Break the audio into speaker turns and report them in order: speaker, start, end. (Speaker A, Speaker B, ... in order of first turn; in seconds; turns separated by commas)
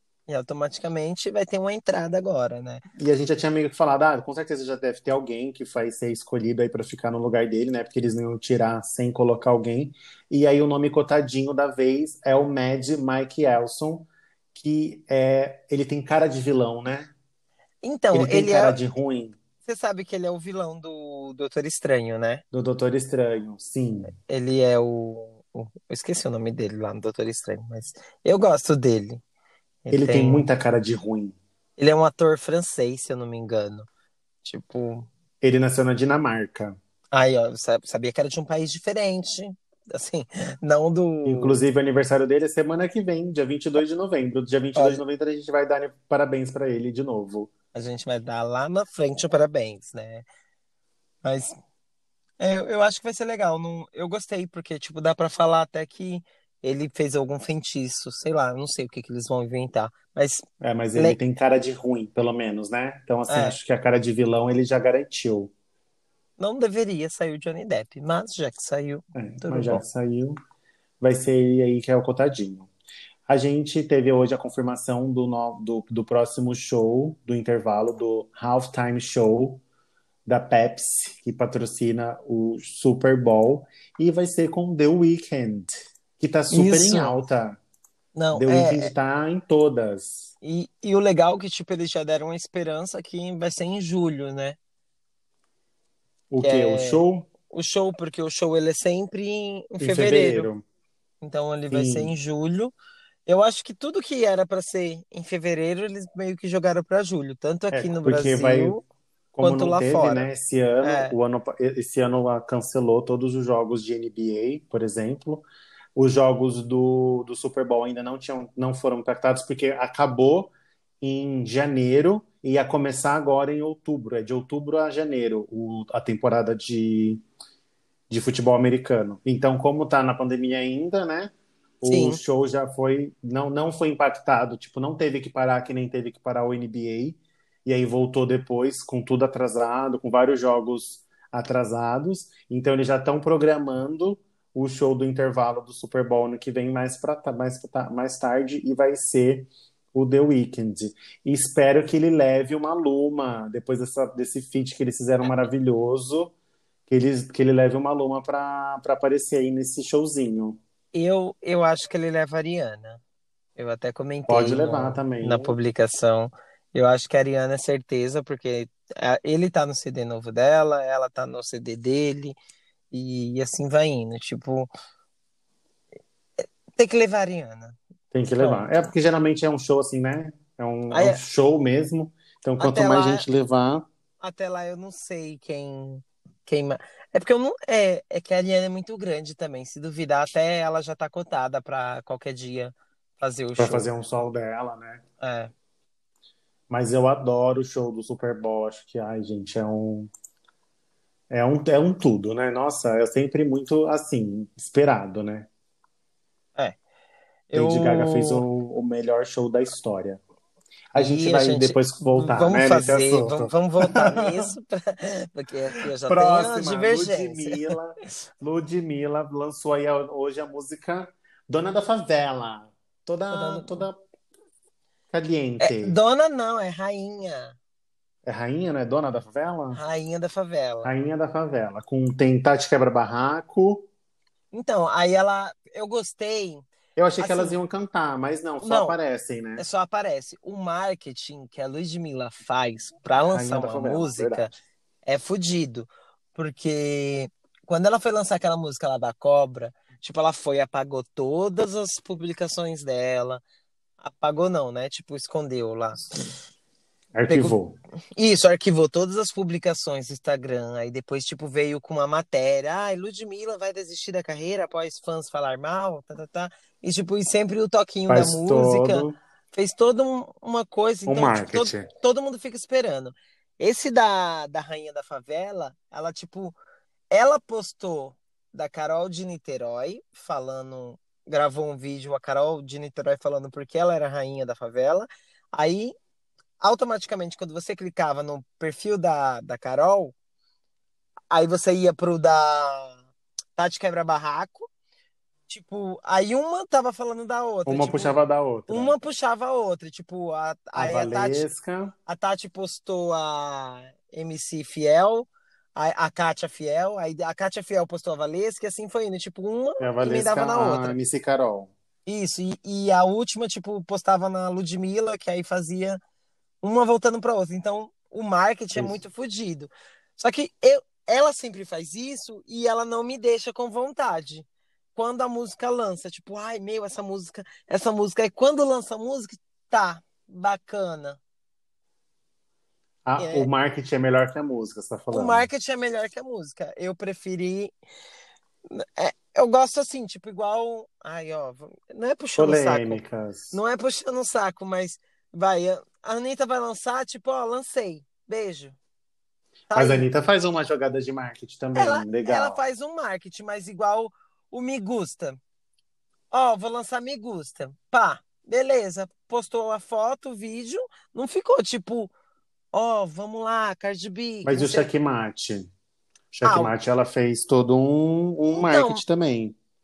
Speaker A: 0.3-2.8, Speaker B: 3.0-17.1, Speaker A: 17.8-18.8, Speaker B: 18.1-19.4, Speaker A: 19.6-22.4, Speaker B: 22.5-24.1, Speaker A: 24.3-29.2, Speaker A: 29.9-30.5, Speaker B: 29.9-31.4, Speaker A: 31.8-33.9, Speaker A: 34.4-35.1, Speaker B: 35.4-36.8, Speaker A: 37.1-41.5, Speaker B: 41.2-47.5, Speaker A: 44.8-45.0, Speaker A: 47.7-50.2, Speaker A: 51.2-51.5, Speaker A: 52.4-60.5, Speaker B: 60.6-65.5, Speaker A: 63.3-63.6, Speaker A: 66.4-69.8, Speaker B: 69.2-70.4, Speaker B: 71.0-72.7, Speaker B: 73.3-79.6, Speaker B: 80.3-87.6, Speaker A: 86.5-87.1, Speaker A: 88.2-88.9, Speaker B: 88.3-90.3, Speaker A: 90.4-94.6, Speaker B: 96.3-97.3, Speaker A: 96.4-100.5, Speaker B: 99.8-100.6, Speaker A: 101.2-102.7, Speaker B: 101.7-102.1, Speaker A: 103.3-108.8, Speaker B: 107.7-108.8, Speaker B: 109.3-127.2, Speaker A: 109.4-110.3, Speaker A: 110.8-111.1, Speaker B: 128.1-156.3, Speaker A: 131.9-132.2, Speaker B: 156.9-160.6, Speaker A: 160.9-163.0, Speaker A: 163.6-172.4, Speaker B: 164.3-165.6, Speaker A: 172.9-174.7, Speaker A: 176.4-177.8, Speaker B: 178.1-183.8, Speaker A: 178.4-178.7, Speaker A: 180.9-181.2, Speaker A: 182.6-183.2, Speaker A: 184.2-193.9, Speaker B: 193.6-195.0, Speaker A: 195.2-195.5, Speaker B: 196.7-200.1, Speaker B: 201.3-205.5, Speaker A: 207.5-208.4, Speaker B: 207.5-210.2, Speaker B: 210.9-214.5, Speaker A: 210.9-217.7, Speaker B: 215.8-224.0, Speaker A: 223.3-223.9, Speaker B: 225.1-226.0, Speaker A: 225.6-227.6, Speaker B: 228.3-229.8, Speaker A: 229.7-230.9, Speaker B: 230.8-233.9, Speaker A: 234.5-236.6, Speaker B: 237.0-239.7, Speaker A: 237.2-237.6, Speaker A: 238.6-239.0, Speaker A: 239.6-244.5, Speaker B: 243.2-244.5, Speaker A: 245.1-253.4, Speaker A: 254.0-256.1, Speaker B: 257.1-257.8, Speaker A: 257.3-257.6, Speaker A: 258.1-276.6, Speaker B: 268.1-269.2, Speaker B: 271.1-271.9, Speaker A: 277.1-285.9, Speaker A: 286.6-290.1, Speaker A: 291.3-293.0, Speaker A: 293.6-294.7, Speaker A: 295.5-298.2, Speaker B: 297.7-298.9, Speaker A: 298.7-301.4, Speaker B: 300.8-301.9, Speaker A: 302.1-311.0, Speaker B: 309.8-311.7, Speaker A: 312.1-316.0, Speaker A: 316.6-331.2, Speaker B: 333.1-335.5, Speaker A: 333.2-333.5, Speaker A: 335.1-337.7, Speaker A: 338.7-343.0, Speaker B: 342.4-343.6, Speaker A: 343.5-348.8, Speaker A: 349.7-350.1, Speaker B: 349.7-352.6, Speaker A: 351.8-355.4, Speaker A: 356.3-362.1, Speaker A: 362.7-364.9, Speaker B: 364.4-365.7, Speaker B: 366.3-369.6, Speaker A: 366.4-366.7, Speaker A: 368.6-369.0